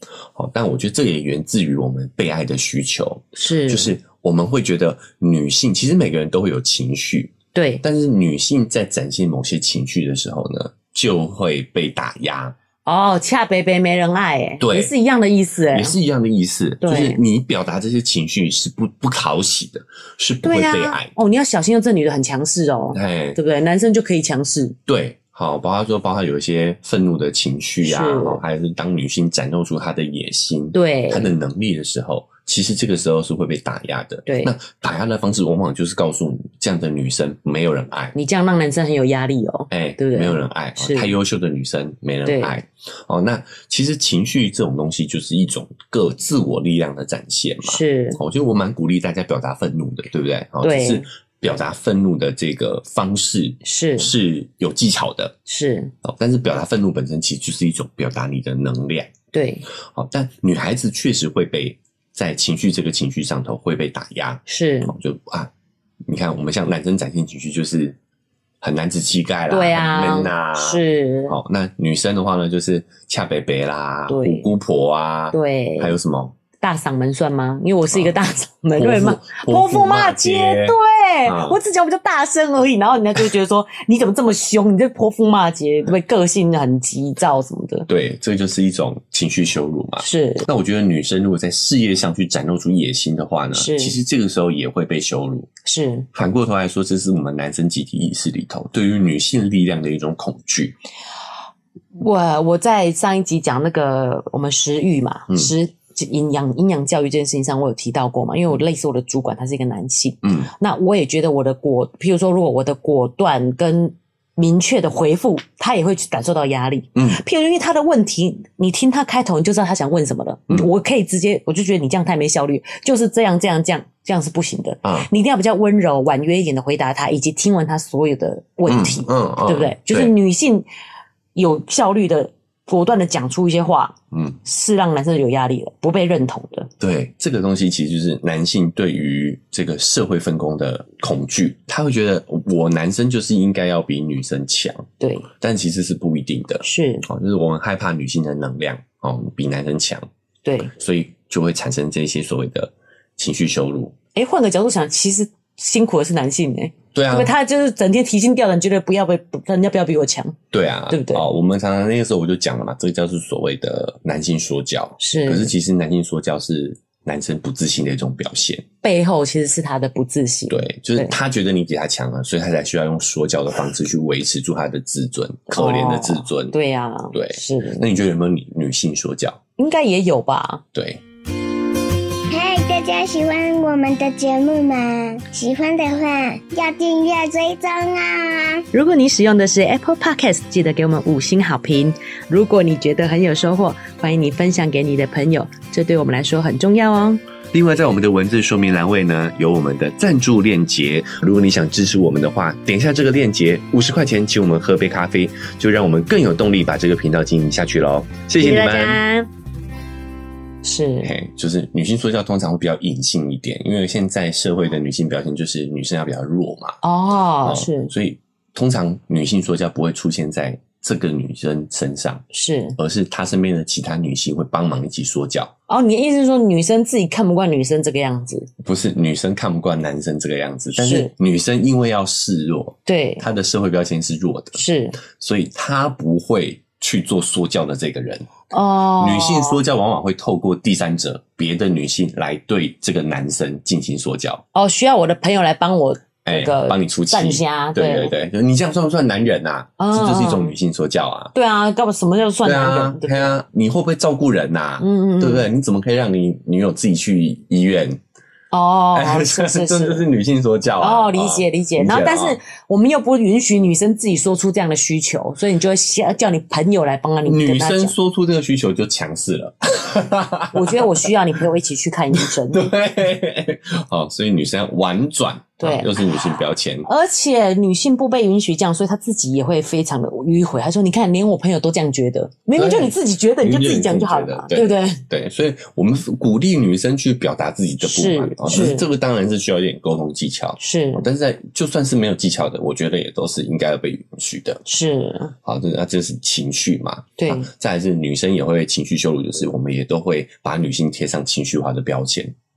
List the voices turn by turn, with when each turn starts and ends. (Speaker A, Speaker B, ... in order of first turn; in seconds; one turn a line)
Speaker A: 0.3-12.6
Speaker B: 3.4-4.0
Speaker B: 7.5-7.8
Speaker B: 12.9-16.0
Speaker A: 14.6-14.9
Speaker A: 15.7-21.1
Speaker B: 16.8-17.2
Speaker B: 20.4-24.8
Speaker A: 22.9-23.4
Speaker A: 24.9-38.1
Speaker B: 27.8-28.4
Speaker B: 30.7-31.3
Speaker B: 34.3-34.5
Speaker B: 38.1-41.2
Speaker A: 39.7-55.4
Speaker B: 42.3-42.6
Speaker B: 47.6-48.2
Speaker B: 50.6-51.1
Speaker B: 53.6-54.1
Speaker B: 55.5-55.9
Speaker A: 56.0-59.1
Speaker B: 59.3-59.7
Speaker A: 59.9-65.5
Speaker B: 64.5-65.0
Speaker A: 66.1-68.0
Speaker A: 68.6-76.4
Speaker B: 69.5-71.4
Speaker B: 74.1-74.5
Speaker B: 75.3-76.0
Speaker B: 76.6-87.9
Speaker A: 78.8-81.6
Speaker A: 87.9-95.5
Speaker B: 90.0-90.5
Speaker B: 93.5-94.0
Speaker B: 95.7-96.1
Speaker A: 96.1-100.8
Speaker B: 102.0-130.7
Speaker A: 110.2-110.5
Speaker A: 117.0-117.2
Speaker A: 128.7-130.1
Speaker B: 131.3-136.7
Speaker A: 134.1-134.4
Speaker A: 136.8-150.1
Speaker B: 145.0-145.3
Speaker B: 146.6-147.1
Speaker B: 150.4-150.7
Speaker A: 150.7-153.9
Speaker B: 154.2-160.4
Speaker A: 156.9-157.3
Speaker A: 160.5-168.7
Speaker B: 160.9-161.2
Speaker B: 165.0-165.5
Speaker B: 168.8-171.2
Speaker A: 170.5-176.5
Speaker B: 175.5-177.9
Speaker A: 177.1-179.4
Speaker B: 179.6-180.6
Speaker A: 180.7-181.0
Speaker C: 182.3-188.7
Speaker B: 188.7-197.2
Speaker A: 197.5-209.0
Speaker B: 208.4-209.3
Speaker B: 210.6-211.1
Speaker A: 211.0-216.8
Speaker B: 216.8-217.9
Speaker A: 217.4-222.3
Speaker B: 222.3-222.8
Speaker A: 222.8-225.5
Speaker B: 225.7-228.5
Speaker A: 228.6-238.3
Speaker B: 230.7-231.1
Speaker B: 232.9-233.2
Speaker B: 234.6-235.0
Speaker B: 238.5-239.6
Speaker A: 239.0-244.4
Speaker B: 244.5-248.1
Speaker A: 246.2-251.3
Speaker B: 249.8-250.6
Speaker B: 251.3-253.4
Speaker A: 252.4-258.0
Speaker B: 254.8-255.5
Speaker B: 258.5-260.1
Speaker A: 258.9-262.4
Speaker B: 260.8-267.9
Speaker A: 267.2-271.1
Speaker B: 270.5-272.7
Speaker A: 272.1-276.9
Speaker B: 275.6-276.0
Speaker B: 276.9-285.0
Speaker A: 282.6-294.6
Speaker B: 287.8-288.9
Speaker B: 290.6-291.1
Speaker B: 294.7-295.3
Speaker A: 295.4-302.3
Speaker B: 297.2-297.5